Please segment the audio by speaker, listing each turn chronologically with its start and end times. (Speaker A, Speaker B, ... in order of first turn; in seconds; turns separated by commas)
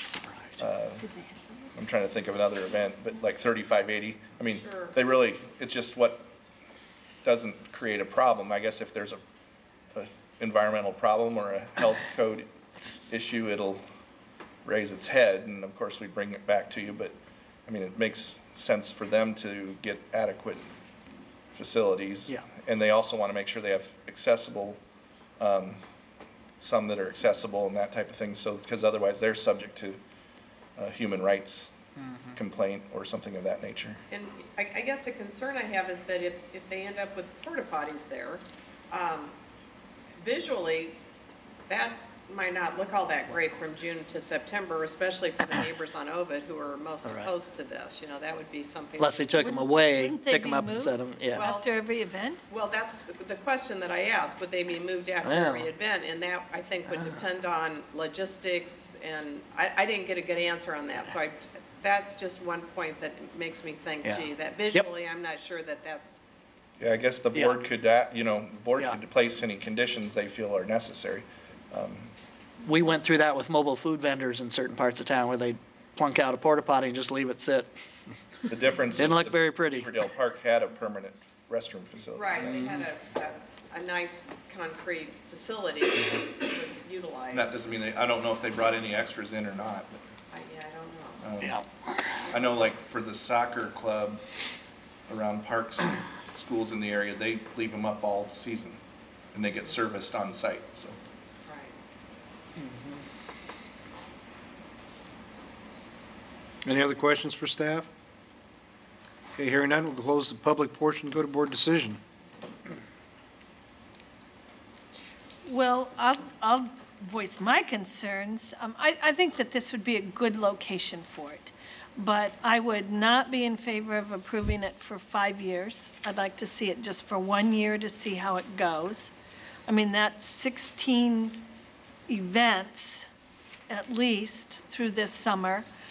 Speaker A: 0.2-0.6, Speaker B: 0.6-1.1, Speaker C: 1.0-1.4, Speaker B: 1.8-6.3, Speaker D: 4.5-5.0, Speaker B: 7.2-9.2, Speaker B: 9.9-12.5, Speaker B: 13.1-13.8, Speaker B: 14.6-17.1, Speaker B: 17.7-20.7, Speaker B: 21.5-24.8, Speaker B: 25.4-25.8, Speaker B: 26.6-30.0, Speaker B: 30.8-31.7, Speaker A: 32.0-32.3, Speaker B: 32.3-34.0, Speaker D: 34.1-39.4, Speaker D: 40.2-41.0, Speaker D: 41.7-49.6, Speaker A: 47.0-47.3, Speaker A: 49.0-51.5, Speaker C: 49.4-52.4, Speaker D: 51.3-51.7, Speaker D: 52.5-66.2, Speaker A: 55.2-55.7, Speaker A: 64.0-64.8, Speaker B: 66.8-72.1, Speaker A: 72.6-77.7, Speaker B: 78.5-82.8, Speaker A: 78.9-79.9, Speaker D: 82.1-87.6, Speaker B: 87.3-90.0, Speaker D: 90.3-91.3, Speaker B: 91.2-91.6, Speaker A: 91.4-91.9, Speaker B: 92.3-94.2, Speaker B: 95.1-98.8, Speaker B: 99.3-101.0, Speaker D: 101.4-101.8, Speaker E: 106.6-107.9, Speaker E: 109.4-112.0, Speaker C: 115.4-129.1, Speaker C: 129.7-131.5, Speaker C: 132.1-133.1, Speaker C: 133.7-135.7